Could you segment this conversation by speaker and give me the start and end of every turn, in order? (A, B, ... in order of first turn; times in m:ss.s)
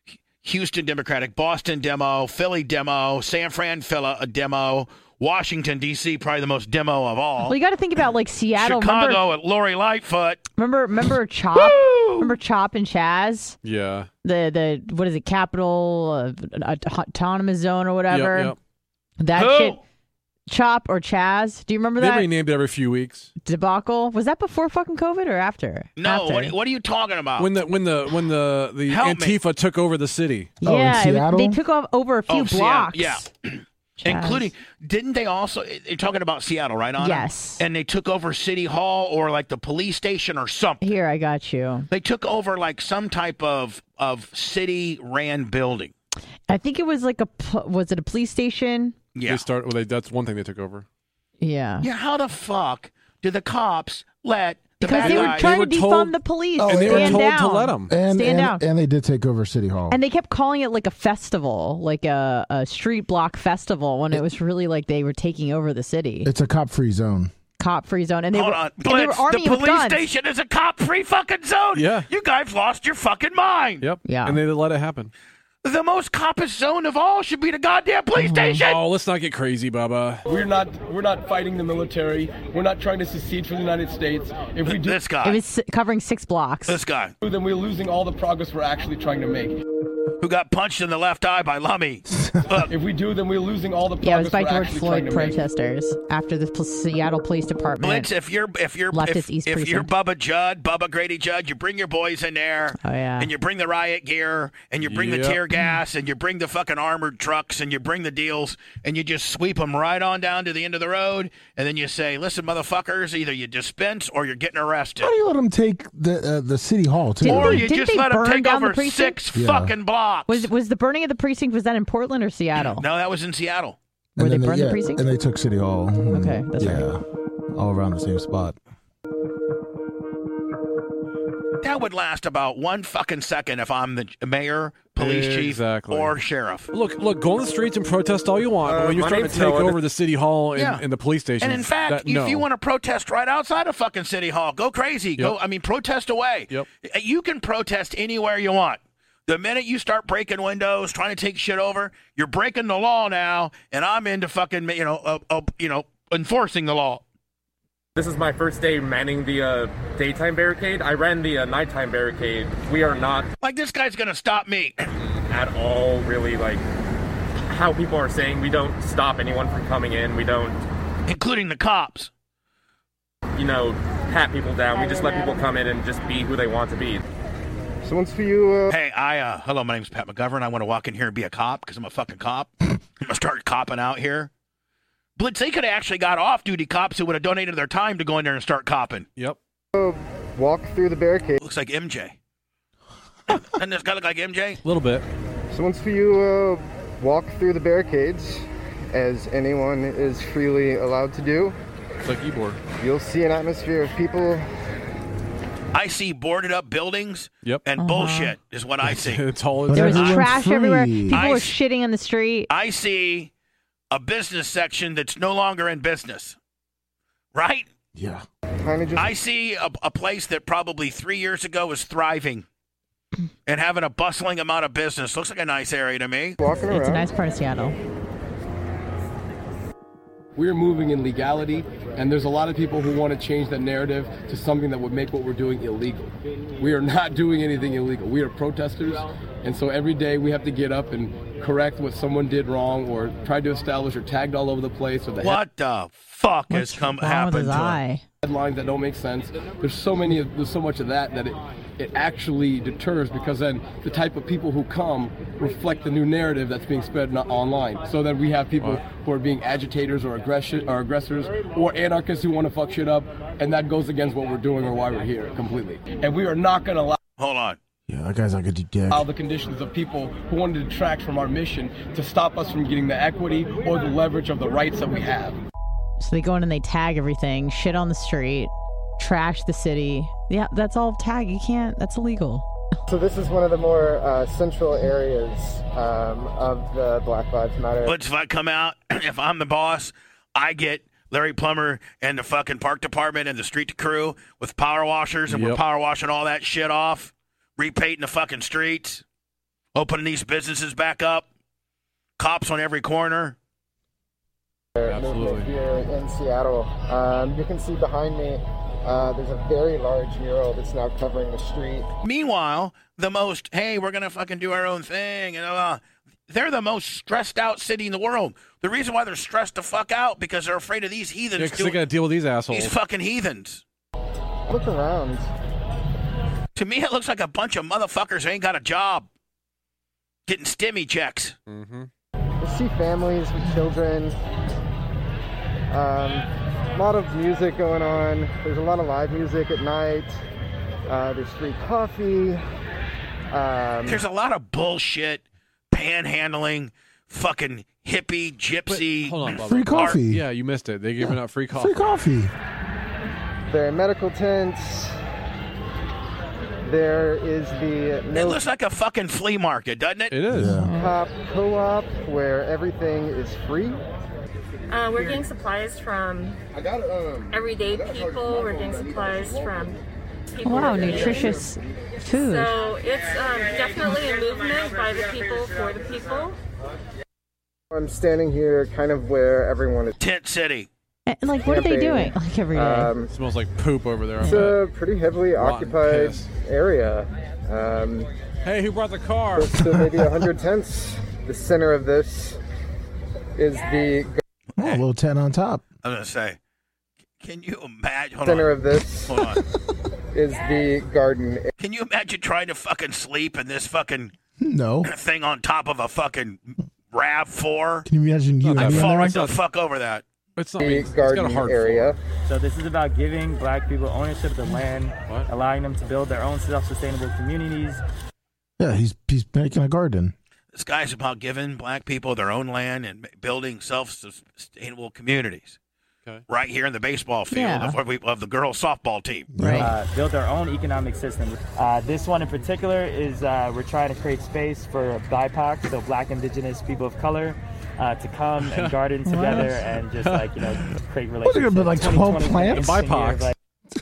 0:00.4-0:07.6 A
0:07.4-0:09.2 B
0:08.6-0:10.4 A
0:10.6-0:13.6 B
0:11.5-0:12.3 A
0:13.6-0:14.1 C
0:14.2-0:18.6 B
0:18.1-0:18.6 C
0:19.2-0:19.8 B
0:19.4-0:19.8 A
0:20.5-0:22.3 B
0:22.0-0:23.3 C
0:23.4-0:26.6 B
0:26.0-0:27.5 A
0:27.4-0:30.5 C
0:28.9-0:29.4 A
0:30.6-0:33.3 B
0:30.6-0:31.6 D
0:32.3-0:40.9 A
0:34.0-0:34.5 B
0:37.0-0:37.6 B
0:40.8-0:41.9 B
0:41.9-0:45.9 A
0:46.5-0:49.0 B
0:49.2-0:49.4 A
0:49.3-0:50.8 C
0:51.4-0:51.9 B
0:51.8-0:55.6 A
0:54.8-0:58.6 B
0:54.9-0:57.9 C
0:56.6-0:57.3 D
0:57.9-1:00.0 D
0:59.9-1:06.3 B
1:06.2-1:07.3 D
1:07.6-1:10.1 B
1:08.3-1:13.8 A
1:11.7-1:12.1 C
1:13.8-1:15.1 C
1:14.0-1:14.4 B
1:15.6-1:18.8 A
1:18.2-1:18.6 B
1:18.6-1:20.3 C
1:20.3-1:25.0 E
1:24.7-1:25.4 A
1:25.2-1:26.8 B
1:26.7-1:27.1 A
1:27.2-1:29.6 E
1:30.2-1:32.7 A
1:32.1-1:32.5 D
1:32.7-1:35.4 E
1:34.0-1:38.1 B
1:37.8-1:55.1 A
1:38.9-1:39.9 B
1:42.8-1:43.3 B
1:44.8-1:45.4 C
1:55.0-1:57.7 D
1:57.2-1:59.2 B
1:57.2-2:00.5 A
1:59.3-1:59.7 D
2:00.3-2:02.8 B
2:02.6-2:03.8 A
2:04.2-2:05.0 B
2:04.2-2:07.0 D
2:06.1-2:06.9 B
2:07.5-2:08.6 D
2:11.6-2:16.7 A
2:15.0-2:16.2 C
2:16.7-2:22.4 C
2:18.7-2:19.8 F
2:20.6-2:20.8 A
2:21.4-2:37.0 A
2:38.0-2:43.3 F
2:43.4-2:44.9 A
2:45.3-2:46.6 F
2:47.5-2:50.6 F
2:51.1-2:52.1 A
2:53.4-2:57.0 F
2:57.8-2:58.7 G
2:58.7-3:04.3 A
3:05.2-3:09.1 A
3:09.8-3:11.4 G
3:11.4-3:12.2 A
3:13.3-3:14.6 A
3:14.6-3:15.0 C
3:15.5-3:21.6 G
3:22.0-3:22.6 C
3:22.8-3:24.4 G
3:25.7-3:29.2 A
3:27.8-3:28.4 B
3:28.8-3:30.2 C
3:29.6-3:31.2 D
3:29.7-3:32.5 B
3:31.1-3:31.5 A
3:32.5-3:33.3 A
3:33.9-3:36.4 A
3:37.3-3:37.7 A
3:38.0-3:38.2 D
3:38.6-3:39.1 G
3:39.0-3:42.4 A
3:43.5-3:46.4 A
3:46.4-3:47.1 G
3:46.7-3:47.8 B
3:50.4-4:05.4 E
4:05.2-4:07.8 A
4:06.5-4:08.0 B
4:08.2-4:27.0 E
4:27.2-4:27.6 A
4:27.9-4:29.1 D
4:28.9-4:35.4 E
4:36.0-4:42.5 B
4:42.9-4:48.0 G
4:47.8-4:59.0 A
4:55.3-4:55.6 C
4:59.7-5:01.3 A
5:02.2-5:03.4 A
5:04.8-5:11.9 G
5:04.9-5:05.5 C
5:12.0-5:21.8 A
5:21.4-5:22.8 C
5:22.5-5:23.6 A
5:24.5-5:25.3 G
5:26.6-5:29.1 A
5:30.3-5:31.4 A
5:31.5-5:31.9 C
5:32.4-5:34.2 G
5:35.7-5:40.2 G
5:40.9-5:42.4 G
5:43.3-5:44.0 G
5:43.9-5:50.0 A
5:48.7-5:51.8 C
5:49.4-5:50.2 D
5:51.0-5:52.3 D
5:53.5-5:55.0 G
5:56.6-5:58.4 G
5:58.1-6:00.1 A
6:00.1-6:00.6 C
6:00.3-6:00.7 D
6:00.4-6:01.0 B
6:00.7-6:03.8 G
6:04.7-6:06.4 H
6:07.3-6:09.8 H
6:10.4-6:11.4 H
6:10.4-6:12.6 B
6:12.1-6:16.4 H
6:17.7-6:20.0 G
6:20.0-6:20.7 A
6:21.1-6:23.0 B
6:21.4-6:23.1 G
6:23.1-6:24.6 C
6:24.2-6:28.1 G
6:24.2-6:24.6 B
6:25.4-6:26.3 C
6:28.4-6:29.5 C
6:29.4-6:32.4 G
6:33.4-6:34.2 G
6:34.6-6:35.6 D
6:34.6-6:34.8 A
6:35.8-6:36.4 A
6:37.2-6:39.4 A
6:38.2-6:39.2 G
6:40.1-6:41.5 G
6:41.6-6:44.1 A
6:44.4-6:44.9 D
6:44.8-6:47.9 A
6:47.9-6:49.2 D
6:48.4-6:49.4 C
6:48.6-6:50.0 A
6:50.4-6:52.0 C
6:50.6-6:52.0 G
6:52.3-6:57.8 I
6:58.6-7:00.1 D
7:00.5-7:05.6 A
7:06.3-7:09.3 A
7:07.3-7:07.8 B
7:09.3-7:09.7 D
7:09.4-7:09.7 B
7:09.6-7:23.4 I
7:18.4-7:18.8 C
7:19.1-7:19.6 B
7:19.3-7:20.4 C
7:21.2-7:22.8 D
7:22.5-7:23.3 C